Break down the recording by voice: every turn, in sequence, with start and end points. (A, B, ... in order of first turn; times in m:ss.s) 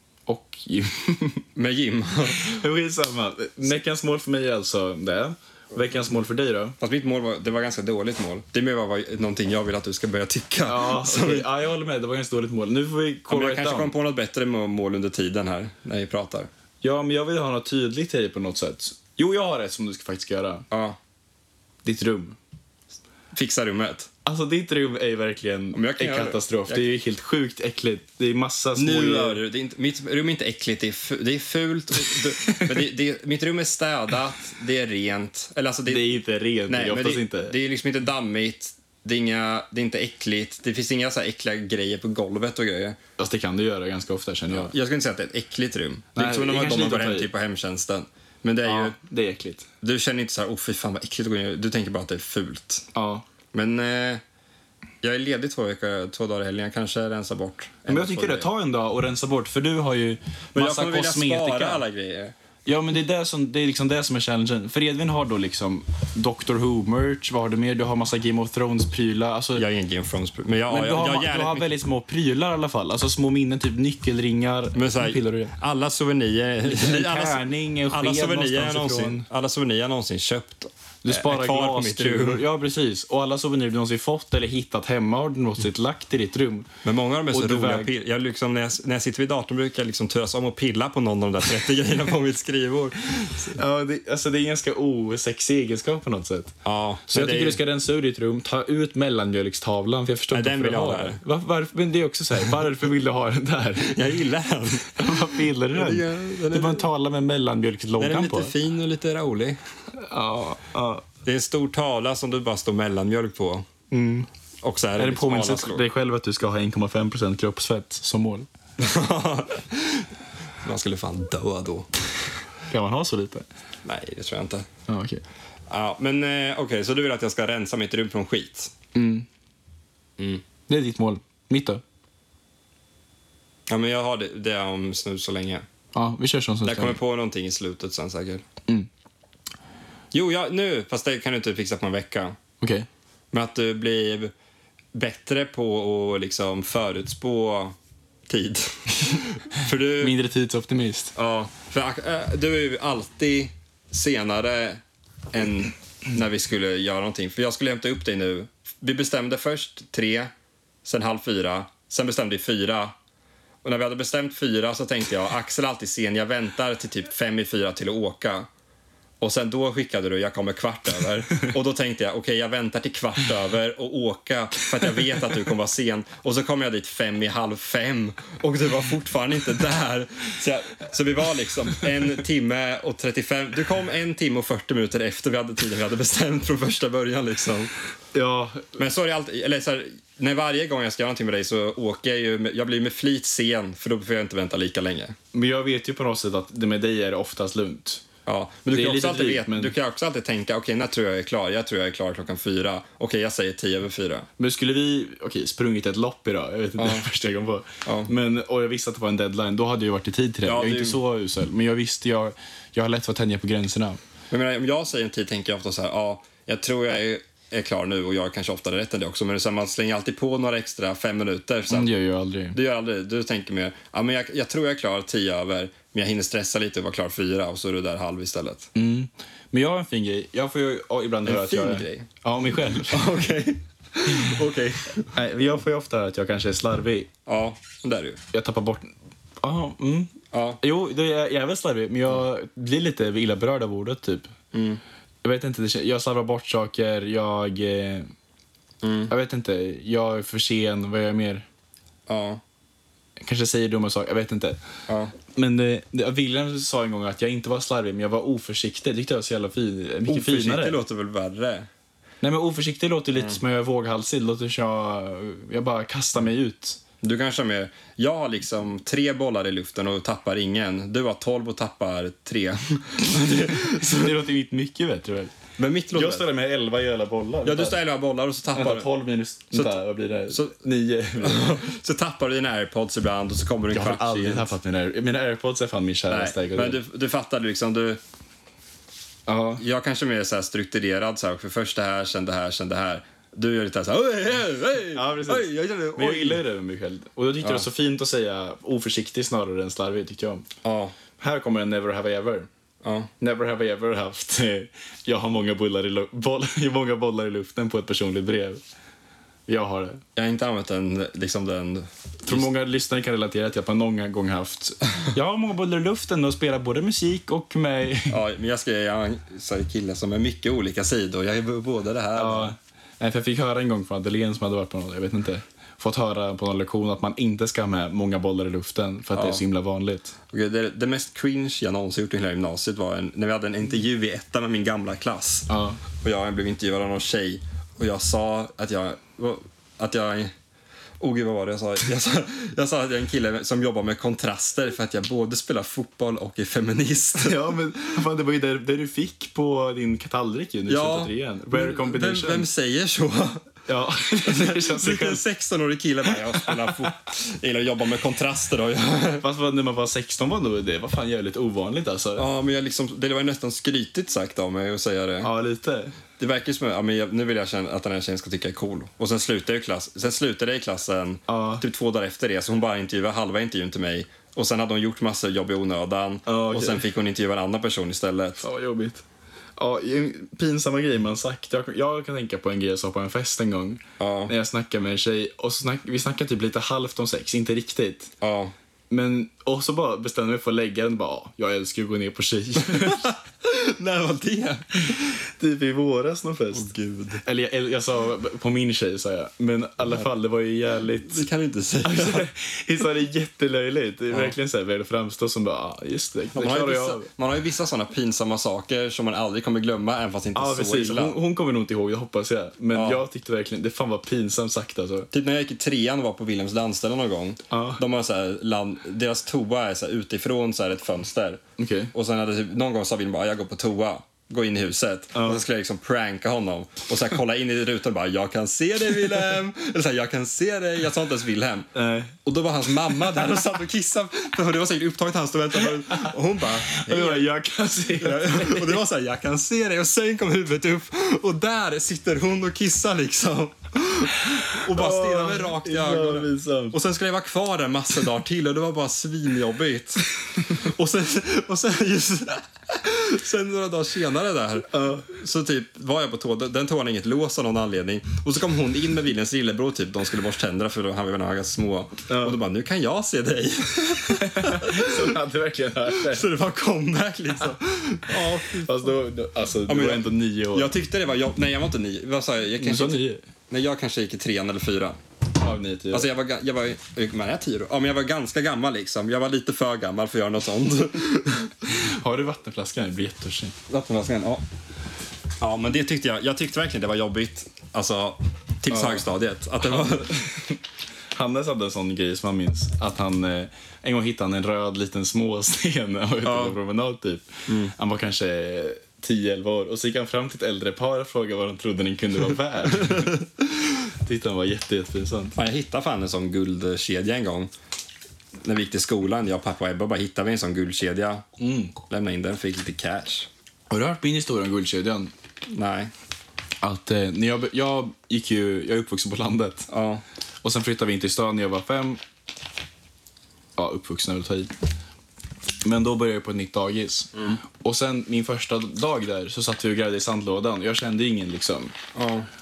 0:00.3-0:01.4 A
0:01.6-0:02.6 B
0:02.3-0:06.8 A
0:06.8-0:11.5 B
0:10.6-0:13.9 A
0:13.3-0:16.5 B
0:16.8-0:20.6 A
0:20.7-0:21.0 B
0:21.8-0:22.4 A
0:23.3-0:24.1 B
0:24.2-0:29.4 A
0:25.7-0:26.9 B
0:28.8-0:43.0 B
0:32.4-0:32.8 A
0:35.9-0:37.5 A
0:43.2-0:44.7 A
0:44.5-0:49.0 B
0:46.1-0:47.3 A
0:48.6-0:49.7 A
0:49.8-0:52.8 B
0:52.9-0:53.2 A
0:53.5-0:54.2 B
0:55.0-0:58.5 B
0:57.9-1:01.8 A
1:00.5-1:02.3 B
1:02.6-1:09.6 A
1:09.6-1:11.7 B
1:10.7-1:15.5 A
1:14.7-1:22.4 B
1:16.6-1:19.2 A
1:21.0-1:26.7 A
1:26.8-1:33.6 B
1:27.3-1:27.9 A
1:33.5-1:44.0 A
1:36.6-1:37.6 B
1:40.3-1:41.2 B
1:43.8-1:46.8 B
1:44.9-1:48.5 A
1:48.0-1:49.6 B
1:49.9-1:51.0 A
1:51.2-1:53.7 B
1:53.9-1:54.3 A
1:54.6-1:55.8 B
1:55.0-1:58.5 A
1:58.8-2:00.1 B
2:00.6-2:01.9 B
2:02.7-2:03.4 A
2:03.8-2:04.7 B
2:04.9-2:05.2 A
2:05.7-2:08.7 B
2:08.9-2:09.2 A
2:10.2-2:10.4 B
2:10.7-2:11.8 A
2:13.7-2:15.6 B
2:15.9-2:17.0 A
2:16.6-2:18.4 B
2:20.1-2:22.4 B
2:22.6-2:22.9 A
2:23.3-2:24.3 B
2:24.9-2:27.8 B
2:28.3-2:30.2 B
2:30.0-2:31.1 A
2:31.1-2:34.8 B
2:35.3-2:40.3 B
2:40.8-2:42.9 B
2:43.6-2:48.5 B
2:49.2-3:07.7 B
3:08.1-3:08.8 A
3:08.8-3:15.2 B
3:15.3-3:18.0 A
3:18.2-3:24.3 B
3:18.7-3:19.7 A
3:24.4-3:34.0 A
3:26.8-3:27.1 B
3:27.8-3:28.1 B
3:30.4-3:31.0 B
3:34.3-3:41.9 B
3:41.7-3:42.6 A
3:42.5-3:48.7 B
3:48.8-3:53.0 A
3:51.2-3:52.1 B
3:52.9-3:55.1 B
3:54.1-3:57.1 A
3:57.2-3:58.2 B
3:58.3-4:04.3 A
4:00.3-4:00.6 B
4:04.5-4:04.8 B
4:05.2-4:08.1 A
4:08.8-4:09.1 B
4:09.1-4:11.4 A
4:12.1-4:12.4 B
4:13.2-4:14.6 A
4:14.9-4:15.1 B
4:15.3-4:20.8 A
4:20.1-4:21.7 B
4:22.2-4:26.8 A
4:23.1-4:23.4 B
4:27.0-4:34.2 B
4:33.3-4:35.3 A
4:35.6-4:36.2 B
4:35.9-4:37.8 A
4:37.4-4:38.9 B
4:38.5-4:41.6 A
4:39.5-4:40.5 B
4:41.2-4:44.5 B
4:43.7-4:46.8 A
4:46.1-4:48.0 B
4:49.3-4:49.6 A
4:49.6-4:56.4 B
4:54.9-5:00.4 A
5:00.6-5:01.0 B
5:01.2-5:02.5 A
5:02.8-5:03.1 B
5:03.2-5:08.6 A
5:09.5-5:10.0 A
5:10.1-5:12.5 B
5:12.2-5:18.2 A
5:18.1-5:22.6 B
5:22.1-5:30.1 A
5:29.1-5:29.4 B
5:30.3-5:40.3 B
5:35.5-5:35.8 A
5:41.0-5:47.6 B
5:47.2-5:52.5 A
5:50.7-5:53.5 B
5:53.7-5:55.2 A
5:54.2-5:59.2 B
5:56.4-5:56.7 A
5:59.2-6:02.3 A
6:02.2-6:05.3 B
6:05.2-6:06.0 A
6:06.2-6:18.4 B
6:11.3-6:11.6 A
6:16.2-6:16.9 A
6:18.4-6:19.0 A
6:19.6-6:28.1 A
6:24.0-6:24.3 B
6:28.2-6:28.5 B
6:28.9-6:33.1 A
6:32.7-6:35.2 B
6:35.4-6:36.7 A
6:36.5-6:37.2 B
6:37.2-6:41.2 A
6:41.1-6:42.3 B
6:41.8-6:47.1 A
6:46.4-6:51.2 B
6:50.4-6:55.1 A
6:52.7-6:53.0 B
6:55.1-7:11.7 B
6:57.5-6:57.8 A
7:01.6-7:01.9 A
7:05.1-7:05.4 A
7:11.7-7:12.2 A
7:12.2-7:17.3 B
7:15.8-7:16.1 A
7:16.7-7:18.8 A
7:18.0-7:45.1 B
7:24.5-7:26.8 A
7:34.7-7:35.1 A
7:42.1-7:42.4 A
7:44.1-7:46.3 A
7:45.9-7:48.8 B
7:48.1-7:50.7 A
7:49.6-7:55.0 B
7:52.6-7:53.2 A
7:55.4-7:56.1 A
7:55.9-8:01.7 B
8:01.6-8:03.6 A
8:03.7-8:04.4 B
8:05.4-8:10.5 B
8:08.7-8:09.0 A
8:11.1-8:23.2 A
8:16.2-8:16.6 B
8:17.5-8:17.7 B
8:22.7-8:23.6 B
8:24.0-8:25.4 A
8:25.4-8:27.5 B
8:28.4-8:31.2 B
8:31.4-8:31.7 A
8:31.8-8:33.3 B
8:33.7-8:35.1 A
8:35.5-8:35.9 B
8:36.6-8:39.7 A
8:39.7-8:40.0 B
8:40.4-8:42.0 A
8:43.6-8:44.5 A
8:45.6-8:51.7 A
8:47.1-8:47.4 B
8:51.9-8:52.3 B